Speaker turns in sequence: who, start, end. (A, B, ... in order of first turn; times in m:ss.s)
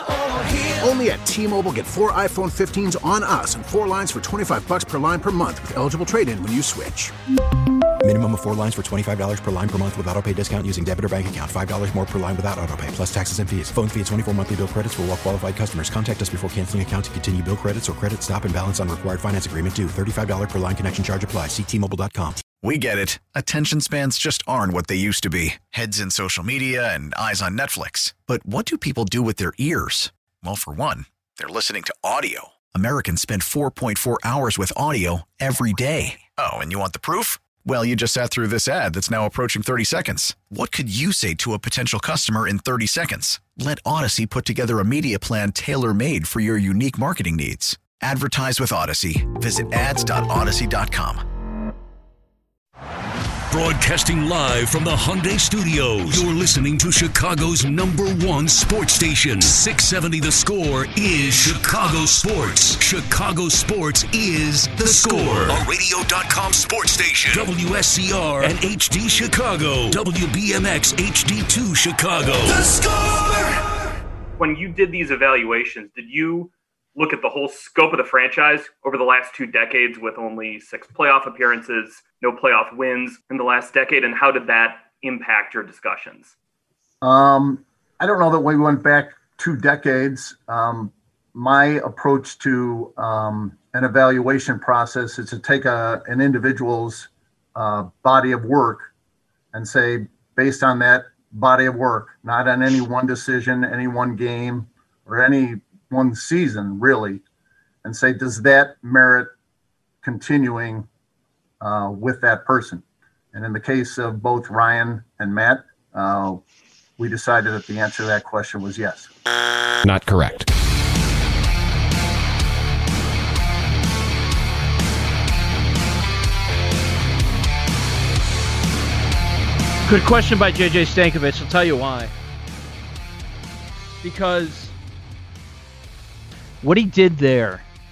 0:00.6-0:07.1 A
0:08.0-0:22.4 B
0:22.5-0:51.2 C
0:53.5-1:13.5 D
1:14.4-1:26.3 E
1:27.0-1:38.9 F
1:39.5-1:47.2 F
1:47.8-1:49.3 F
1:50.0-1:50.9 F
1:51.6-1:56.4 F
1:57.0-1:59.1 F
2:09.9-2:12.1 G
2:14.0-2:14.8 G
2:16.6-2:17.6 G